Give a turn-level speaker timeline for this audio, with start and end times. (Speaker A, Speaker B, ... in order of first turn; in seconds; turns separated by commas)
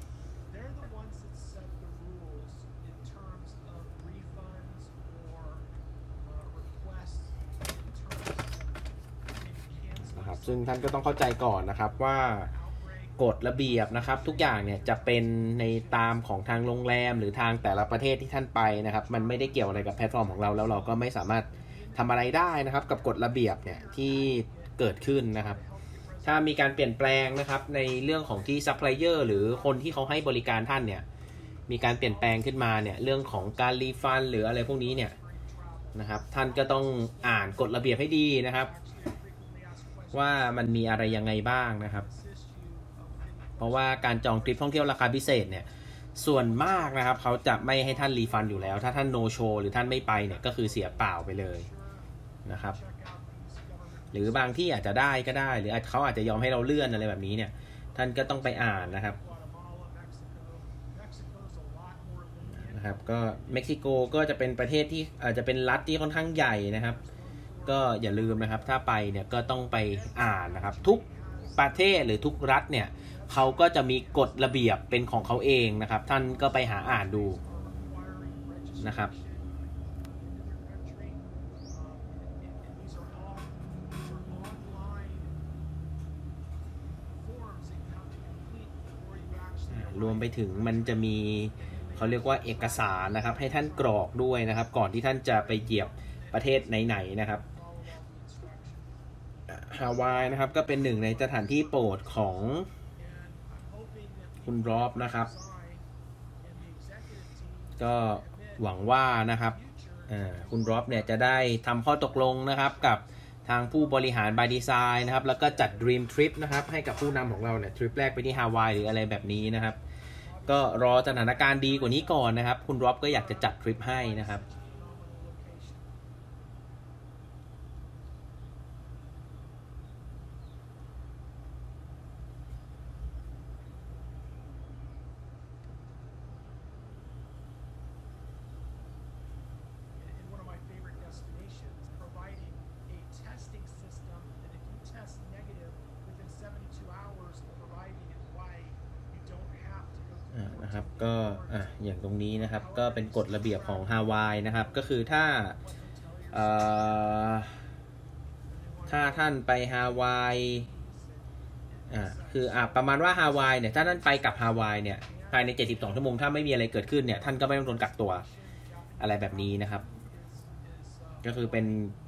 Speaker A: 0.5-11.7, Speaker B: 10.0-12.5, Speaker A: 12.3-16.7, Speaker B: 13.2-25.6, Speaker A: 19.0-20.9, Speaker A: 21.5-30.4, Speaker B: 26.2-31.1, Speaker A: 31.3-44.9, Speaker B: 31.7-35.1, Speaker B: 35.9-38.7, Speaker B: 40.1-42.1, Speaker B: 43.6-51.7, Speaker A: 46.3-49.2, Speaker A: 49.9-54.8, Speaker B: 52.5-52.8, Speaker B: 54.1-59.2, Speaker A: 57.9-63.9, Speaker B: 62.5-67.0, Speaker A: 66.9-68.9, Speaker B: 67.7-71.0, Speaker A: 69.9-72.3, Speaker B: 71.6-77.4, Speaker A: 73.0-74.9, Speaker A: 76.6-85.4, Speaker B: 78.8-79.1, Speaker A: 87.1-94.3, Speaker B: 89.7-97.4, Speaker A: 95.3-99.0, Speaker B: 99.5-102.7, Speaker A: 100.0-102.4, Speaker A: 102.9-105.9, Speaker B: 104.4-105.3, Speaker A: 106.4-108.9, Speaker B: 107.8-109.6, Speaker A: 109.5-111.5, Speaker B: 110.1-119.8, Speaker A: 112.1-113.1, Speaker A: 113.7-117.7, Speaker A: 120.2-122.4, Speaker B: 120.5-124.4, Speaker A: 123.0-125.9, Speaker A: 139.9-157.2, Speaker B: 150.3-155.6, Speaker B: 156.3-157.6, Speaker A: 158.4-159.5, Speaker B: 158.9-160.7, Speaker A: 160.5-166.4, Speaker B: 161.9-168.2, Speaker A: 167.1-171.9, Speaker B: 169.0-169.8, Speaker B: 171.2-171.9